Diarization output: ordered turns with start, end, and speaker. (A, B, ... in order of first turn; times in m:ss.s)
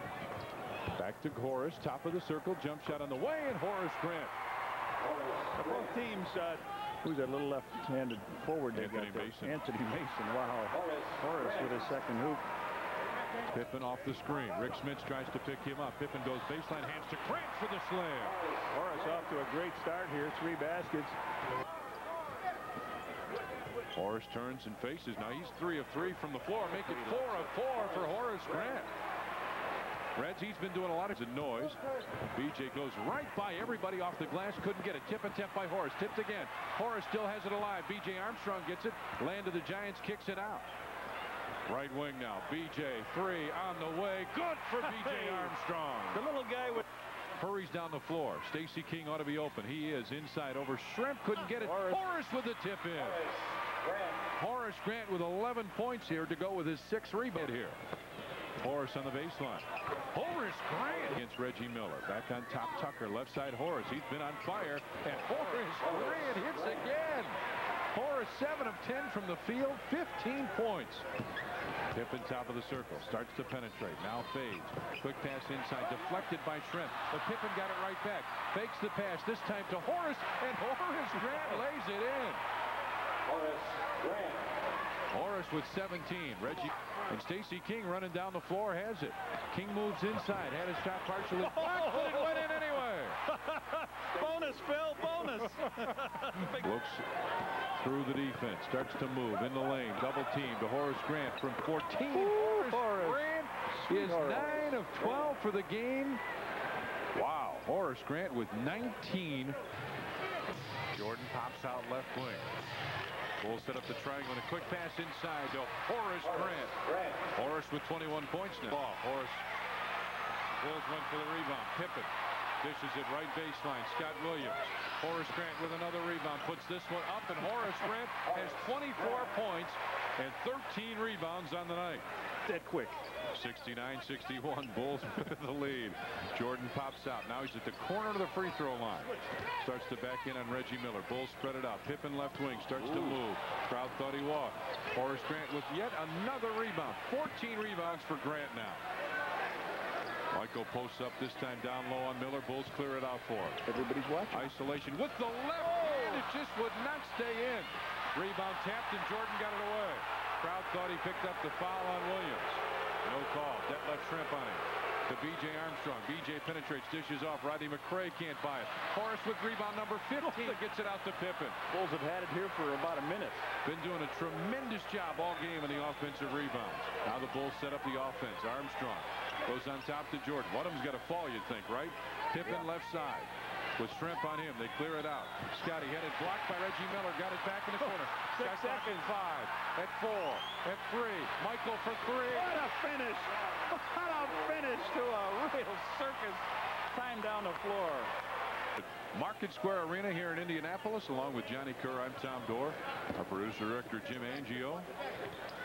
0:00.9-0:04.3 A
0:05.5-0:12.4 B
0:08.7-0:09.6 A
0:13.5-0:18.4 A
0:18.7-0:21.2 B
0:23.9-0:28.9 A
0:26.7-0:27.5 B
0:30.2-0:40.7 A
0:41.6-0:46.2 A
0:44.8-0:45.5 B
0:46.1-0:46.8 B
0:47.3-0:53.2 A
0:51.6-0:52.0 B
0:54.4-0:57.8 A
0:58.6-1:07.4 A
1:07.9-1:11.1 A
1:11.9-1:22.4 A
1:25.1-1:33.2 A
1:31.4-1:32.7 B
1:33.3-1:36.6 B
1:36.2-1:37.1 A
1:37.7-1:46.2 A
1:42.1-1:43.3 B
1:43.8-1:44.8 B
1:47.1-1:49.6 A
1:50.9-1:52.5 A
1:53.4-1:56.8 A
1:57.3-1:59.5 A
2:00.6-2:12.0 A
2:12.4-2:13.0 B
2:13.3-2:28.8 A
2:22.8-2:23.2 B
2:30.3-2:33.6 A
2:33.6-2:34.4 B
2:34.3-2:51.6 A
2:50.2-2:50.6 B
2:51.7-2:53.4 B
2:53.6-3:12.6 A
3:07.8-3:09.1 B
3:12.3-3:18.1 B
3:18.8-3:24.9 A